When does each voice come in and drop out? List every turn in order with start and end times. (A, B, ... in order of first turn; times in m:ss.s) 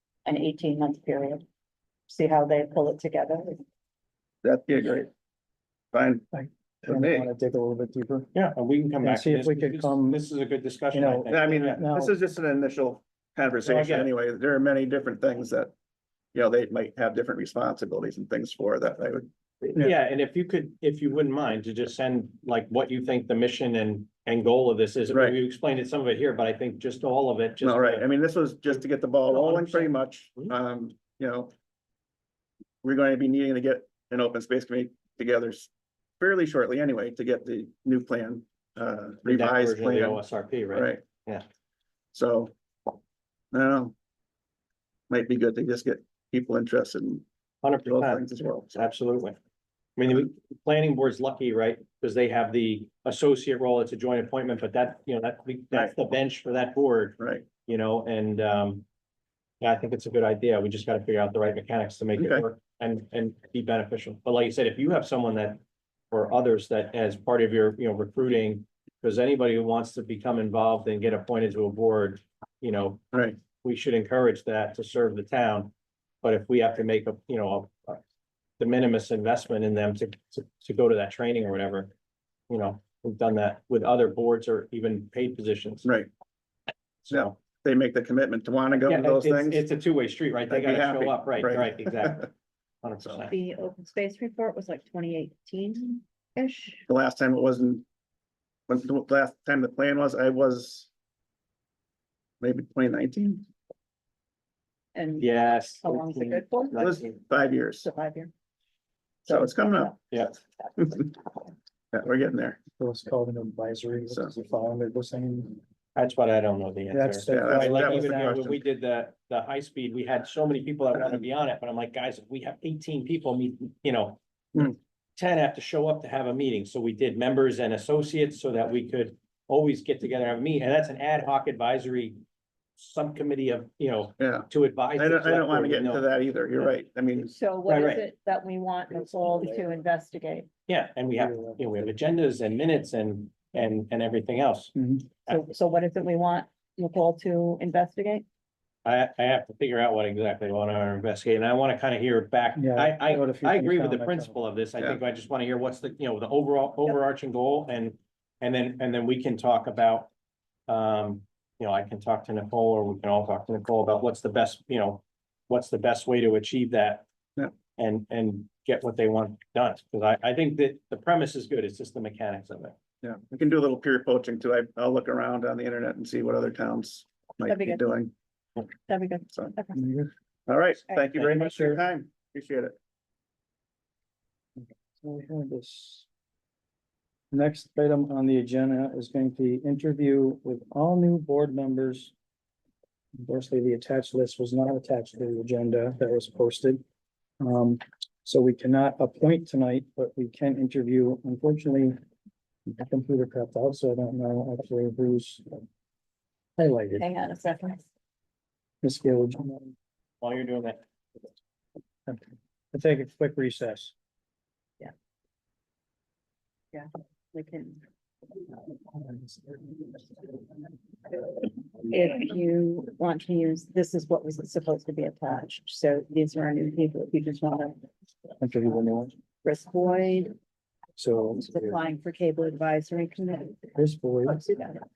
0:00.2-0:01.4 A
0:02.1-0:03.6 A
0:04.4-0:05.1 B
0:05.9-0:06.2 B
0:06.3-0:08.3 C
0:06.8-0:07.3 B
0:08.3-0:11.8 D
0:09.0-0:10.2 C
0:10.9-0:12.1 C
0:11.3-0:15.7 B
0:13.7-0:14.1 D
0:16.3-0:19.9 B
0:19.7-0:28.1 D
0:25.1-0:25.4 B
0:27.6-0:31.5 B
0:28.7-0:30.5 D
0:32.8-0:41.0 B
0:39.3-0:41.4 D
0:42.1-0:42.5 B
0:43.5-0:43.9 B
0:45.1-0:47.2 B
0:47.6-0:49.4 D
0:47.8-0:48.7 B
0:50.0-0:58.8 D
0:57.2-0:57.4 B
0:59.6-1:15.7 D
1:02.2-1:02.4 B
1:16.2-1:18.0 D
1:18.6-1:21.9 D
1:22.5-1:25.9 D
1:25.8-1:26.1 B
1:27.1-1:27.3 D
1:27.1-1:29.6 B
1:28.8-1:32.3 D
1:30.5-1:32.2 B
1:32.8-1:33.3 D
1:33.3-1:36.8 A
1:36.9-1:37.8 B
1:38.7-1:40.9 B
1:42.4-1:43.4 B
1:44.9-1:46.9 A
1:45.2-1:47.2 D
1:46.8-1:47.8 B
1:47.8-1:48.3 A
1:49.2-1:50.0 B
1:49.3-1:49.9 A
1:50.5-1:51.2 A
1:50.8-1:51.0 B
1:51.9-1:52.6 B
1:52.8-1:55.6 C
1:55.9-2:12.2 D
1:56.9-1:58.5 C
1:57.3-1:58.6 B
2:12.8-2:16.7 D
2:14.2-2:17.3 B
2:17.1-2:20.5 A
2:17.7-2:18.0 D
2:20.7-2:24.7 D
2:21.2-2:21.8 C
2:24.8-2:25.1 C
2:25.3-2:28.2 A
2:28.8-2:40.1 D
2:32.6-2:34.3 C
2:40.7-2:47.0 D
2:47.7-2:52.8 D
2:53.0-2:58.1 B
2:57.5-2:57.8 A
2:58.9-2:59.8 A
2:59.8-3:00.1 C
3:00.5-3:02.7 B
3:01.2-3:01.5 D
3:01.4-3:01.8 C
3:04.6-3:06.0 C
3:07.3-3:12.1 C
3:13.2-3:16.8 C
3:17.4-3:22.0 C
3:22.6-3:25.6 C
3:26.6-3:27.1 C
3:27.0-3:27.8 A
3:28.8-3:29.7 C
3:30.2-3:30.8 D
3:32.0-3:33.9 C
3:36.7-3:37.8 A
3:39.5-3:40.4 A
3:41.3-3:47.8 A
3:48.4-3:49.2 C
3:49.4-3:50.3 A
3:51.0-3:51.8 C
3:51.4-3:54.8 A
3:53.7-3:54.4 C